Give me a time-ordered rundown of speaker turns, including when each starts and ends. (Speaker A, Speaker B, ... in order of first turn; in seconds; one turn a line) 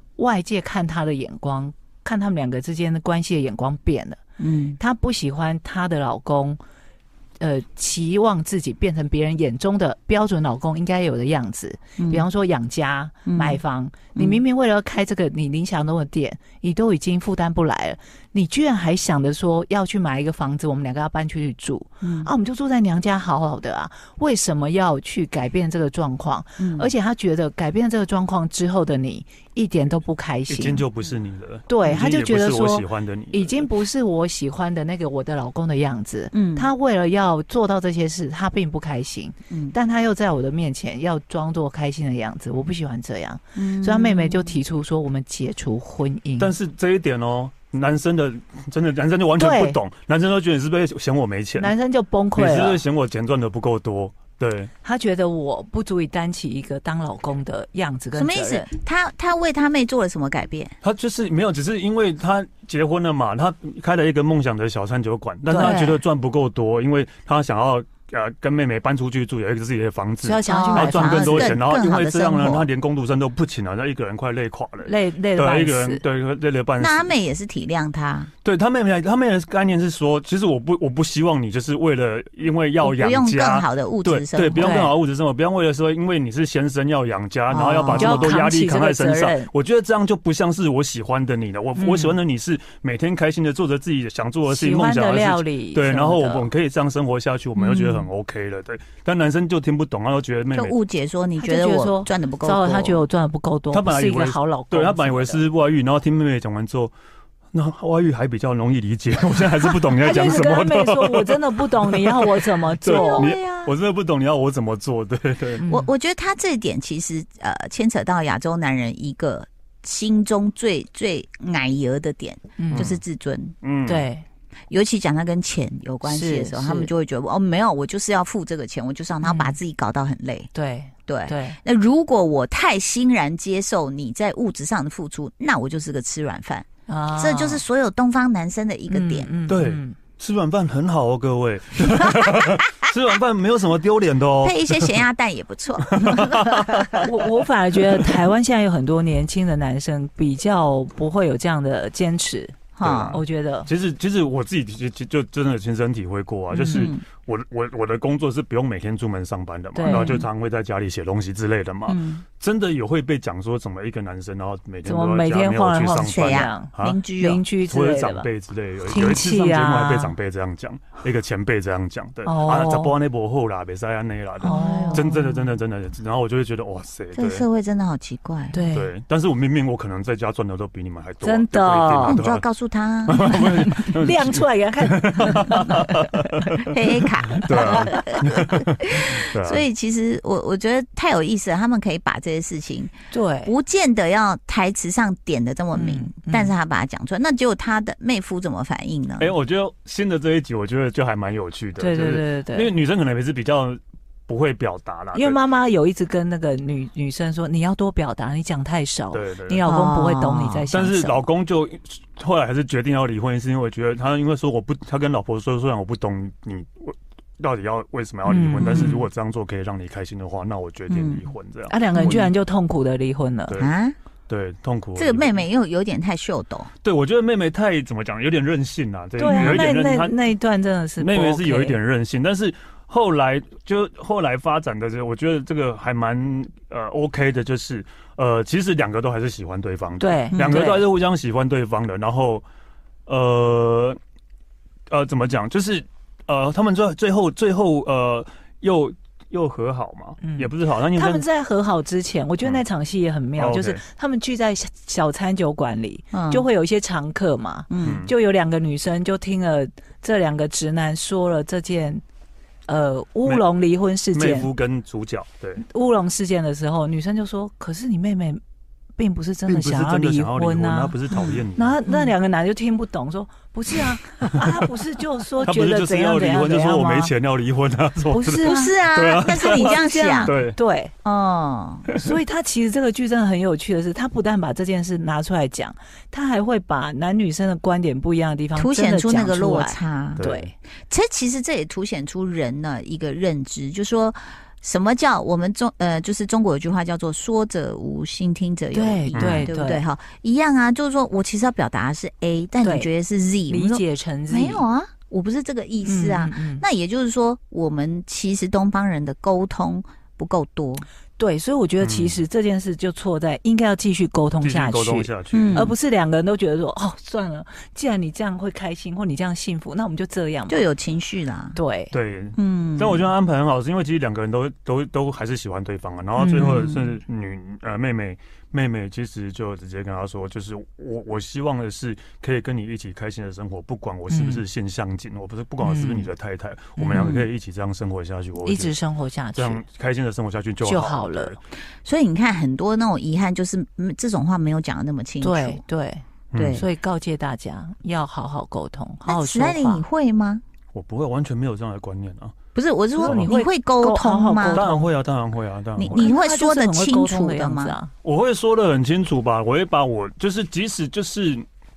Speaker A: 0.2-4.2
Speaker B: 4.4-4.8
Speaker A: 4.8-6.6
Speaker A: 7.4-30.9
Speaker B: 12.0-12.2
Speaker B: 13.3-13.6
Speaker B: 14.2-14.4
Speaker B: 22.0-22.3
Speaker B: 26.6-26.9
Speaker C: 30.5-33.7
Speaker A: 31.7-46.5
Speaker B: 36.3-36.7
Speaker B: 39.5-39.8
Speaker B: 43.6-44.6
Speaker C: 46.4-51.7
Speaker A: 49.4-49.8
Speaker A: 51.6-52.9
Speaker C: 52.4-54.7
Speaker A: 54.8-58.7
Speaker B: 58.1-60.7
Speaker C: 60.8-77.1
Speaker A: 65.5-66.0
Speaker A: 70.2-71.6
Speaker B: 70.5-72.7
Speaker A: 74.8-76.0
Speaker B: 76.8-78.3
Speaker C: 78.4-100.8
Speaker B: 82.8-84.8
Speaker A: 84.6-85.0
Speaker B: 87.5-88.3
Speaker A: 87.9-89.5
Speaker A: 91.8-92.2
Speaker A: 94.5-96.5
Speaker B: 97.6-97.9
Speaker B: 100.5-103.0
Speaker A: 101.4-105.4
Speaker C: 103.7-106.9
Speaker C: 107.5-115.6
Speaker A: 110.0-113.3
Speaker B: 112.9-113.7
Speaker A: 115.6-115.9
Speaker B: 115.7-123.5
Speaker A: 122.6-123.0
Speaker C: 122.7-123.0
Speaker C: 123.6-124.1
Speaker A: 123.9-124.2
Speaker B: 124.7-130.5
Speaker A: 126.0-126.9
Speaker A: 129.2-129.6
Speaker A: 130.5-131.6
Speaker B: 131.1-139.3
Speaker A: 136.9-137.6
Speaker A: 138.9-140.0
Speaker C: 139.5-144.9
Speaker B: 142.2-142.5
Speaker B: 144.4-147.0
Speaker C: 145.9-147.0
Speaker A: 147.0-152.6
Speaker B: 152.8-153.2
Speaker C: 152.8-167.0
Speaker A: 153.1-153.7
Speaker B: 156.5-157.1
Speaker A: 159.8-160.2
Speaker B: 159.8-160.2
Speaker B: 161.9-162.2
Speaker A: 164.8-168.3
Speaker B: 166.1-167.4
Speaker C: 167.6-177.5
Speaker A: 168.9-170.2
Speaker A: 172.2-173.0
Speaker A: 174.4-175.4
Speaker B: 174.5-175.0
Speaker B: 177.2-178.6
Speaker A: 178.5-178.9
Speaker C: 178.7-182.4
Speaker A: 181.2-182.2
Speaker B: 182.1-183.3
Speaker C: 183.1-186.7
Speaker A: 183.1-186.1
Speaker B: 186.7-192.9
Speaker C: 187.4-189.7
Speaker A: 187.6-188.0
Speaker A: 193.1-193.5
Speaker B: 193.4-199.3
Speaker A: 195.7-196.5
Speaker C: 199.2-205.4
Speaker A: 201.8-202.7
Speaker A: 205.1-211.2
Speaker C: 209.1-209.6
Speaker B: 209.7-210.7
Speaker C: 210.7-221.8
Speaker A: 218.3-219.0
Speaker B: 218.6-219.0
Speaker B: 220.9-221.3
Speaker A: 221.7-223.6
Speaker B: 221.9-222.3
Speaker B: 223.6-223.9
Speaker C: 224.3-225.4
Speaker B: 225.0-226.7
Speaker C: 226.8-230.1
Speaker A: 229.2-231.8
Speaker B: 229.3-229.6
Speaker C: 231.0-242.4
Speaker A: 240.0-240.9
Speaker C: 243.1-244.0
Speaker C: 244.9-251.2
Speaker A: 250.2-262.0
Speaker C: 253.4-253.8
Speaker B: 256.1-256.5
Speaker B: 257.7-258.0
Speaker C: 257.8-258.1
Speaker A: 262.7-264.5
Speaker C: 264.1-265.6
Speaker A: 265.6-268.4
Speaker A: 269.0-277.1
Speaker C: 269.5-271.8
Speaker C: 275.4-280.6
Speaker A: 278.1-278.8
Speaker B: 278.4-280.3
Speaker A: 279.3-280.9
Speaker B: 281.0-281.9
Speaker A: 281.9-290.5
Speaker B: 288.6-290.2
Speaker C: 290.2-290.5
Speaker B: 290.9-310.9
Speaker A: 298.7-299.9
Speaker C: 299.1-299.5
Speaker A: 302.6-302.9
Speaker A: 303.5-304.6
Speaker A: 305.9-306.6
Speaker A: 311.2-320.6
Speaker C: 311.8-312.2
Speaker C: 314.4-315.6
Speaker B: 315.3-315.7
Speaker B: 320.5-321.6
Speaker A: 321.6-322.0
Speaker C: 321.9-338.8
Speaker B: 322.4-323.1
Speaker A: 326.2-326.9
Speaker A: 334.1-334.4
Speaker A: 335.6-336.1
Speaker A: 336.8-337.2
Speaker B: 336.9-337.2
Speaker A: 338.4-339.6
Speaker C: 339.4-341.4
Speaker A: 340.6-341.3
Speaker B: 341.8-345.6
Speaker A: 345.2-349.8
Speaker C: 346.3-346.6
Speaker B: 346.4-346.7
Speaker B: 349.1-350.4
Speaker C: 350.7-352.3
Speaker B: 352.6-354.6
Speaker A: 353.0-354.9
Speaker C: 353.0-353.3
Speaker C: 354.5-356.1
Speaker B: 355.8-357.8
Speaker A: 355.9-357.9
Speaker C: 358.0-361.4